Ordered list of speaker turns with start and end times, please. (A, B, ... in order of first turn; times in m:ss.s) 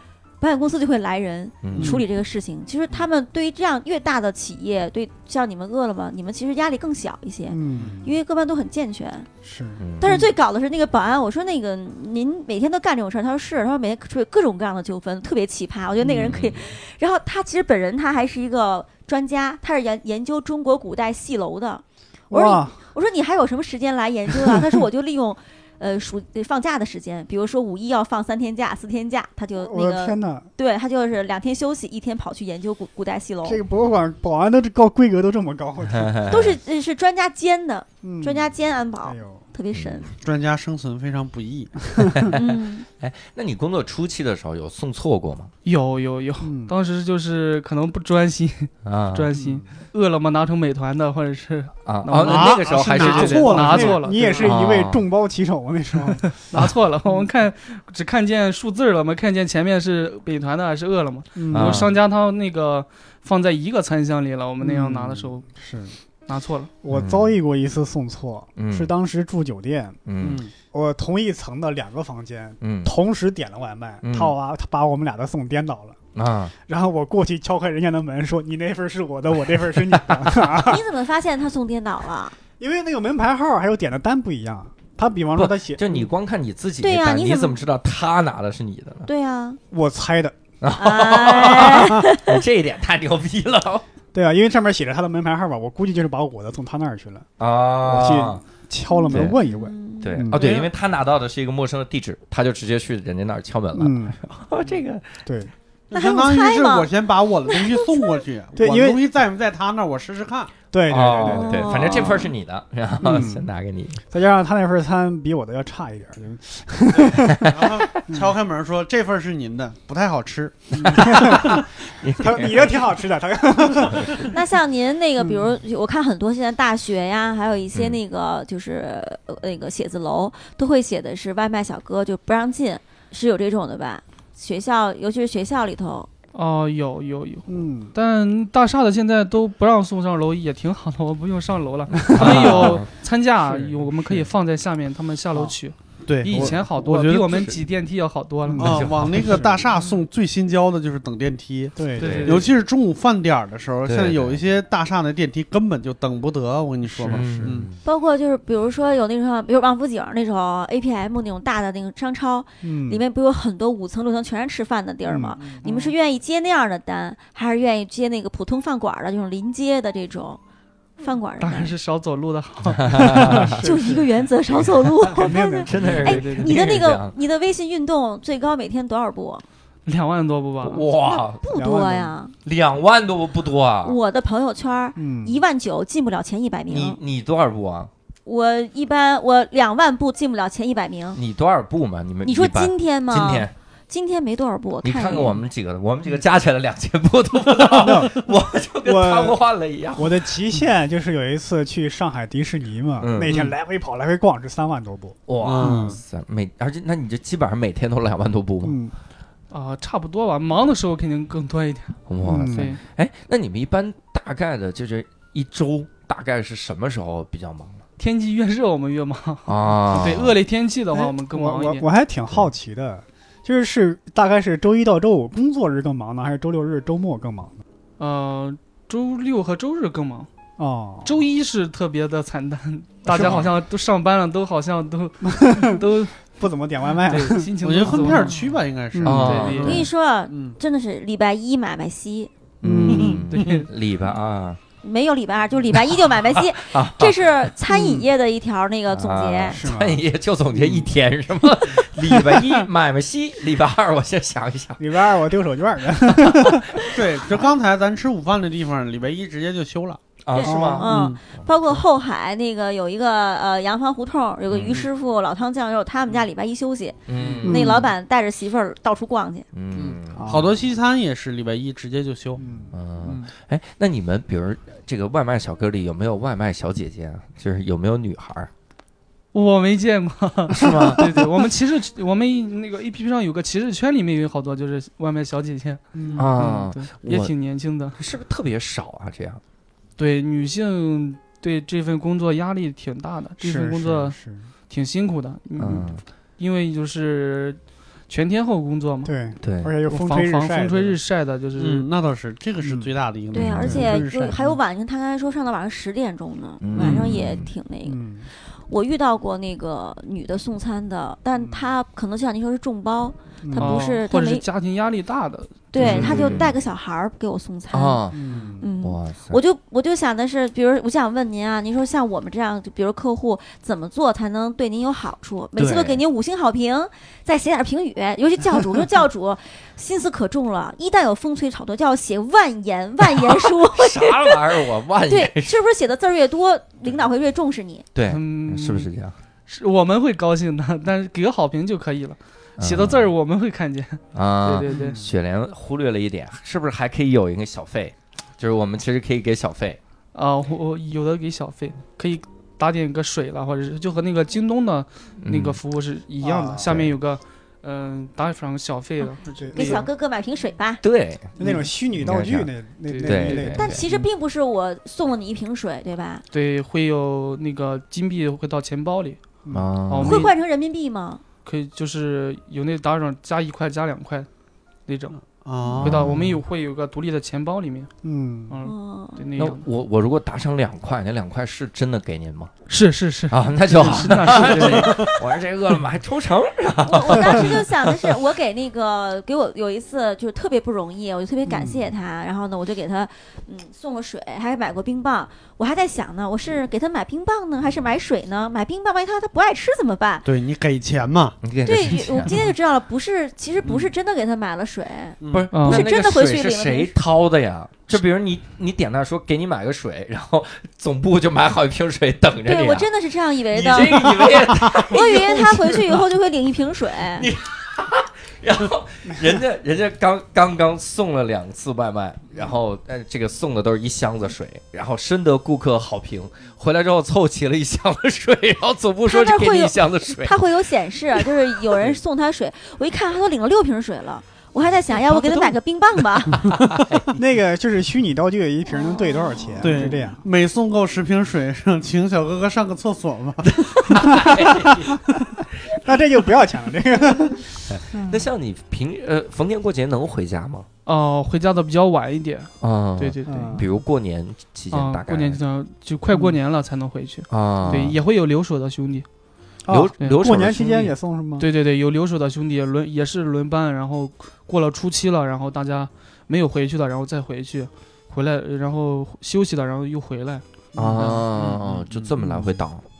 0:00.4-0:09.3 A
0:01.6-0:02.0 B
0:07.5-0:08.1 C
0:09.4-0:10.1 C
0:09.8-0:10.2 B
0:10.0-0:33.6 A
0:16.0-0:16.4 C
0:16.1-0:16.7 B
0:22.3-0:22.8 C
0:29.6-0:30.5 C
0:33.4-0:36.3 C
0:35.9-0:36.6 B
0:36.3-0:40.1 A
0:38.0-0:39.4 C
0:39.7-0:40.1 B
0:40.2-0:41.8 D
0:42.0-0:42.3 C
0:42.1-0:42.4 B
0:42.3-0:42.9 A
0:43.0-0:45.5 B
0:45.6-0:54.5 E
0:46.4-0:46.7 C
0:48.8-0:49.3 B
0:49.3-0:49.6 C
0:51.8-0:53.8 B
0:52.2-0:54.5 D
0:53.5-0:56.4 C
0:54.4-0:55.0 B
0:56.1-1:05.4 E
1:01.4-1:01.9 C
1:01.5-1:01.9 B
1:04.6-1:05.9 C
1:06.3-1:06.7 E
1:06.8-1:10.0 C
1:06.9-1:07.3 B
1:08.6-1:08.9 B
1:10.0-1:10.4 B
1:10.2-1:10.5 D
1:10.7-1:16.0 C
1:12.6-1:12.9 B
1:14.0-1:14.3 B
1:16.1-1:16.5 B
1:16.6-1:20.8 C
1:20.6-1:22.4 A
1:22.6-1:26.1 C
1:25.4-1:29.1 B
1:26.8-1:27.6 A
1:29.0-1:29.6 A
1:29.7-1:30.4 C
1:30.6-1:33.8 B
1:30.8-1:32.4 A
1:34.1-1:37.3 C
1:37.4-1:38.4 B
1:37.8-1:40.5 C
1:38.9-1:40.2 A
1:39.1-1:39.4 B
1:40.0-1:45.1 B
1:40.4-1:40.7 D
1:43.7-1:44.2 C
1:45.2-1:45.5 C
1:45.9-1:50.5 D
1:45.9-1:46.9 A
1:47.5-1:48.1 A
1:48.6-1:49.0 C
1:50.7-1:52.1 C
1:50.9-1:54.0 B
1:51.2-1:52.3 A
1:53.0-1:53.5 C
1:54.1-1:57.5 C
1:56.9-2:01.6 D
1:57.4-1:57.8 B
2:00.8-2:04.3 C
2:01.0-2:02.8 B
2:03.9-2:04.2 B
2:04.3-2:16.1 A
2:05.2-2:05.5 C
2:16.3-2:28.7 E
2:17.5-2:17.9 C
2:22.0-2:22.9 B
2:22.1-2:22.8 C
2:26.0-2:27.5 D
2:28.4-2:29.8 C
2:28.6-2:37.7 D
2:28.6-2:29.4 B
2:31.8-2:32.3 C
2:32.0-2:32.5 E
2:32.0-2:32.5 B
2:33.8-2:34.4 B
2:37.0-2:37.8 B
2:37.0-2:37.5 C
2:37.8-2:50.4 A
2:42.6-2:43.0 C
2:45.0-2:45.6 C
2:45.4-2:45.6 D
2:51.0-2:51.7 A
2:51.4-2:53.6 E
2:52.7-2:53.6 B
2:53.0-2:54.0 C
2:53.6-2:59.4 A
2:55.1-2:56.0 C
2:55.6-2:57.1 B
2:55.8-2:56.6 E
2:59.8-3:00.8 E
3:00.6-3:01.4 B
3:01.0-3:02.3 A
3:01.5-3:02.2 C
3:02.4-3:04.0 B
3:03.8-3:07.0 A
3:05.0-3:05.4 C
3:06.7-3:07.9 B
3:08.2-3:11.2 A
3:11.2-3:13.5 B
3:12.2-3:15.4 A
3:14.8-3:20.2 B
3:17.7-3:18.2 C
3:18.8-3:19.4 C
3:19.9-3:25.9 C
3:23.0-3:23.4 B
3:25.3-3:28.8 B
3:25.4-3:26.0 D
3:28.6-3:28.9 C
3:29.5-3:32.8 E
3:32.1-3:37.8 B
3:32.2-3:32.8 C
3:38.0-3:41.9 E
3:39.4-3:40.4 B
3:40.9-3:47.6 C
3:48.0-3:50.3 E
3:50.6-3:51.2 C
3:51.0-3:56.3 E
3:53.1-3:53.5 B
3:55.2-3:57.5 C
3:57.0-3:58.4 E
3:57.6-4:00.6 D
3:58.9-3:59.4 C
3:59.0-3:59.9 B
3:59.1-3:59.8 E
3:59.6-4:02.3 A
4:02.6-4:04.6 B
4:02.6-4:03.2 C
4:02.8-4:03.4 D
4:02.9-4:03.7 E
4:04.8-4:09.6 A
4:06.0-4:07.5 B
4:08.9-4:15.0 B
4:09.5-4:10.0 C
4:12.0-4:12.6 C
4:14.8-4:16.8 C
4:16.1-4:16.8 B
4:16.9-4:20.0 D
4:20.2-4:21.8 B
4:20.3-4:29.5 A
4:20.4-4:20.9 C
4:20.8-4:21.2 D
4:24.5-4:24.8 B
4:27.1-4:27.8 B
4:27.1-4:27.5 D
4:27.4-4:27.9 C
4:29.5-4:30.5 B
4:29.8-4:32.4 D
4:30.1-4:30.5 C
4:32.4-4:32.7 C
4:32.7-4:38.5 B
4:33.0-4:33.3 D
4:39.3-4:45.8 E
4:40.5-4:41.1 B
4:45.9-4:46.3 C
4:46.0-4:46.3 D
4:46.2-4:47.3 B
4:46.3-4:48.0 E
4:48.0-4:49.4 B
4:50.0-4:54.2 E
4:53.4-4:54.5 C
4:54.7-4:59.1 E
4:55.6-4:56.0 B
4:59.0-5:01.0 C
4:59.4-4:59.8 B
4:59.9-5:01.8 E
5:01.5-5:04.6 D
5:02.6-5:02.9 C
5:03.3-5:14.4 A
5:03.4-5:03.8 B
5:03.6-5:04.0 C
5:06.6-5:07.5 B
5:07.8-5:08.3 C
5:13.4-5:13.8 C
5:13.6-5:16.0 E
5:15.7-5:18.0 A
5:15.8-5:16.5 B
5:17.7-5:18.3 B
5:18.1-5:18.6 C
5:18.6-5:37.9 A
5:18.8-5:19.4 B
5:25.6-5:26.0 B
5:33.2-5:35.5 B
5:37.9-5:39.2 B
5:38.1-5:38.9 E
5:39.5-5:45.0 E
5:42.6-5:43.1 B
5:44.1-5:49.8 B
5:44.7-5:45.1 C
5:50.1-5:59.9 E
5:55.2-5:55.6 B
5:56.2-5:56.7 C
5:56.6-5:56.9 B
5:59.4-5:59.8 C
5:59.5-6:00.8 A
6:00.8-6:02.5 B
6:01.4-6:04.0 C
6:01.4-6:01.7 E
6:02.9-6:03.6 E
6:03.0-6:03.8 B
6:03.5-6:06.2 A
6:06.3-6:09.2 E
6:09.4-6:09.7 C
6:09.5-6:10.3 B
6:09.9-6:10.3 E
6:10.0-6:11.2 A
6:11.4-6:14.3 E
6:14.8-6:15.2 E
6:15.4-6:16.0 D
6:15.7-6:16.4 B
6:15.8-6:17.9 E
6:18.0-6:18.5 C
6:18.5-6:19.6 E
6:18.6-6:19.2 A
6:19.4-6:22.5 B
6:22.7-6:25.1 E
6:23.3-6:28.2 B
6:23.8-6:25.1 D
6:26.8-6:40.3 A
6:40.2-6:41.4 D
6:41.4-6:42.4 B
6:41.6-6:47.0 A
6:43.6-6:43.9 D
6:45.2-6:45.5 D
6:45.3-6:52.9 B
6:45.5-6:45.9 E
6:52.4-6:57.3 A
6:53.5-6:56.0 B
6:53.8-6:54.8 D
6:57.1-7:10.5 B
7:09.0-7:16.5 A
7:11.2-7:12.0 B
7:16.6-7:17.0 B
7:17.1-7:20.2 C
7:18.7-7:19.8 A
7:19.6-7:24.2 D
7:23.6-7:25.1 B
7:24.2-7:24.9 C
7:25.7-7:28.3 C
7:27.7-7:30.7 B
7:30.8-7:33.7 E
7:32.6-7:35.4 B
7:33.2-7:33.6 C
7:34.7-7:39.0 E
7:37.3-7:38.0 B
7:39.6-7:41.5 C
7:39.7-7:40.9 B
7:41.4-7:50.4 E
7:50.7-7:51.0 C
7:50.8-7:52.8 B
7:50.9-7:52.5 D
7:50.9-7:51.2 E